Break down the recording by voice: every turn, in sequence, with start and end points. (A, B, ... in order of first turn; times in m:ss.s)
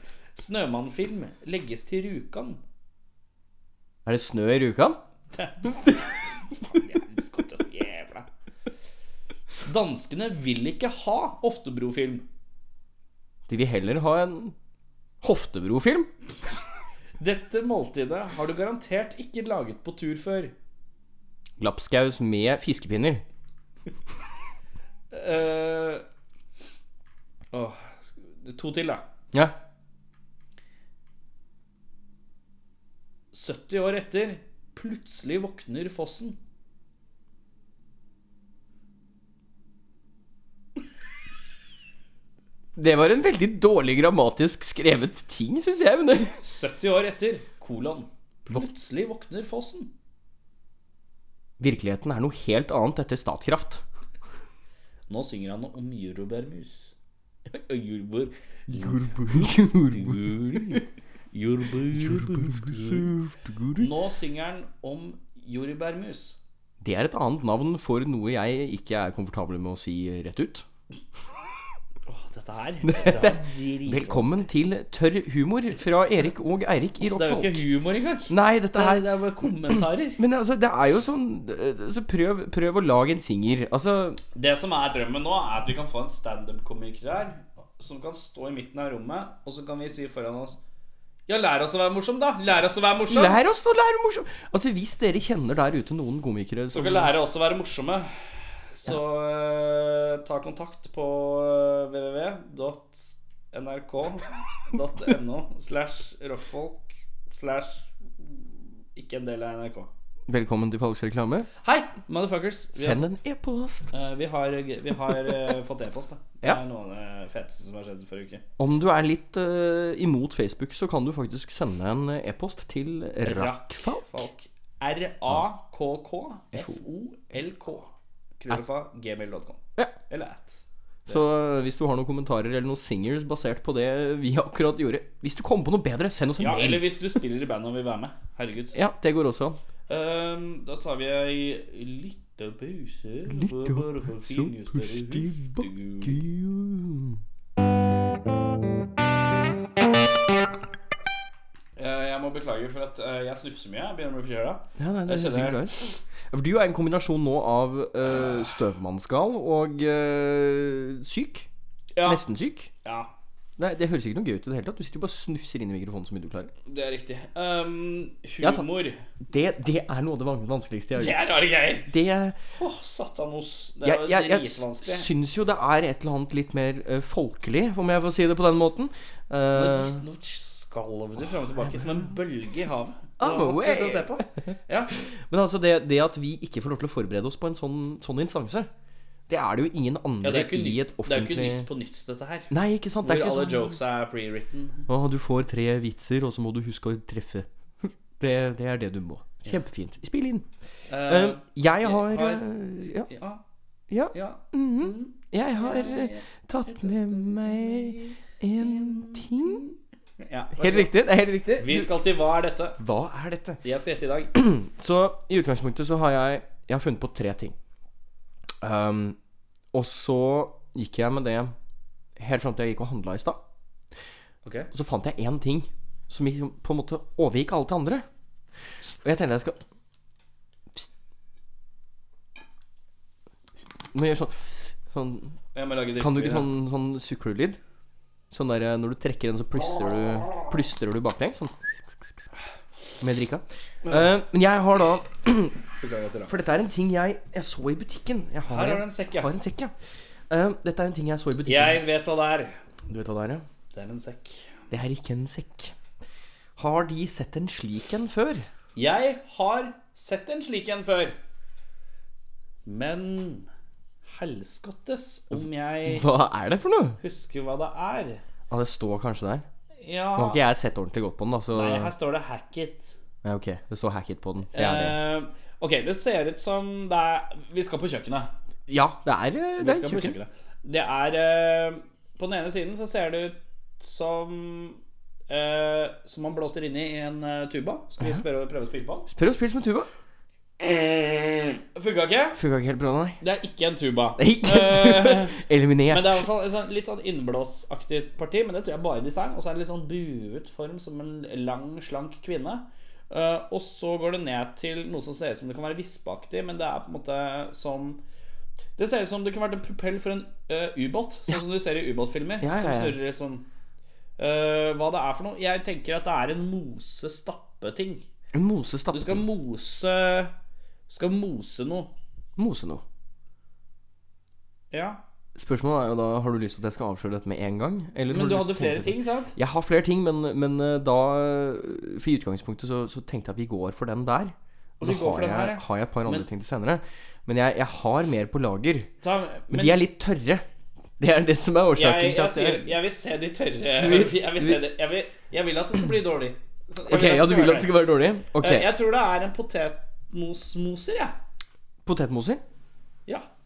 0:00.4-0:02.6 A
0:04.1-0:05.0 B
0:05.3-0:08.3 A
0:09.6-0:12.3 A
0:13.5-0:14.6 B
0:15.2-0:16.1 B
0:17.2-0:20.5 A
0:21.6-0:23.2 B
0:25.1-0:26.0 A
0:27.5-0:29.1 A
0:33.3-0:36.4 A
0:42.8-0:46.4 B
0:46.4-0:49.9 A
0:51.6-0:53.8 B
0:55.1-0:56.9 A
0:57.5-1:03.1 A
0:58.7-1:00.8 B
1:01.9-1:03.9 B
1:03.8-1:06.4 A
1:06.8-1:10.7 B
1:12.1-1:14.4 A
1:12.8-1:17.6 B
1:17.0-1:20.2 A
1:18.3-1:19.1 B
1:19.7-1:24.2 B
1:24.4-1:30.6 A
1:31.3-1:33.4 A
1:33.1-1:37.1 B
1:36.7-1:38.1 A
1:38.7-1:48.4 A
1:49.0-1:49.9 A
1:50.3-1:51.5 B
1:51.6-1:53.0 A
1:52.8-1:53.9 B
1:53.9-1:58.4 A
1:58.6-2:04.2 B
2:03.2-2:11.2 A
2:06.5-2:06.8 B
2:11.1-2:17.0 B
2:16.4-2:18.8 A
2:18.7-2:19.6 B
2:19.9-2:26.2 A
2:23.3-2:27.2 B
2:31.8-2:35.7 A
2:34.8-2:41.5 B
2:38.0-2:38.5 A
2:42.0-2:42.2 A
2:42.0-2:42.7 B
2:42.8-2:43.1 A
2:43.6-2:46.5 B
2:46.7-2:49.0 A
2:48.4-2:48.7 B
2:49.3-2:51.3 B
2:51.0-2:51.9 A
2:51.8-2:52.4 B
2:52.6-2:55.1 A
2:53.8-3:00.0 B
2:59.5-3:05.0 A
3:03.2-3:04.2 B
3:04.9-3:08.7 B
3:09.3-3:11.7 B
3:10.2-3:14.9 A
3:12.5-3:13.8 B
3:14.9-3:20.5 B
3:20.9-3:22.5 A
3:21.0-3:23.1 B
3:23.0-3:23.4 A
3:23.9-3:29.6 B
3:24.1-3:30.9 A
3:30.6-3:32.0 B
3:31.6-3:32.8 A
3:32.8-3:33.6 B
3:33.6-3:34.3 A
3:34.3-3:37.6 B
3:38.6-3:39.2 B
3:39.7-3:41.6 B
3:42.2-3:43.4 B
3:44.7-3:48.0 B
3:49.0-3:49.6 B
3:53.9-3:55.4 B
3:55.6-3:56.5 A
3:56.0-3:57.6 B
3:58.3-4:01.5 B
4:03.0-4:05.6 B
4:05.8-4:06.3 A
4:06.3-4:09.7 B
4:08.5-4:09.3 A
4:10.3-4:11.8 B
4:11.5-4:12.6 A
4:12.9-4:13.4 B
4:13.7-4:14.5 A
4:14.7-4:15.7 B
4:16.6-4:18.5 B
4:18.8-4:21.2 A
4:22.7-4:23.5 A
4:24.1-4:26.1 A
4:25.9-4:27.0 B
4:27.0-4:28.2 A
4:28.5-4:29.4 B
4:29.8-4:30.4 A
4:30.2-4:31.9 B
4:31.5-4:33.0 A
4:33.2-4:35.0 B
4:34.5-4:38.3 A
4:38.7-4:40.2 B
4:39.6-4:49.1 A
4:49.1-4:49.9 B
4:50.7-4:52.4 A
4:52.4-4:53.2 B
4:53.2-5:08.0 A
4:54.2-4:56.3 B
5:08.8-5:13.5 A
5:12.4-5:13.0 B
5:14.2-5:18.0 A
5:18.3-5:19.2 B
5:18.9-5:20.3 A
5:20.9-5:21.9 A
5:22.4-5:22.8 B
5:24.7-5:25.0 A
5:25.4-5:38.9 B
5:28.1-5:29.4 A
5:34.8-5:36.3 A
5:39.0-5:39.8 A
5:39.5-5:40.4 B
5:41.0-5:42.7 B
5:41.8-5:47.8 A
5:43.8-5:44.7 B
5:46.9-5:48.7 B
5:48.4-5:51.2 A
5:51.8-5:52.4 B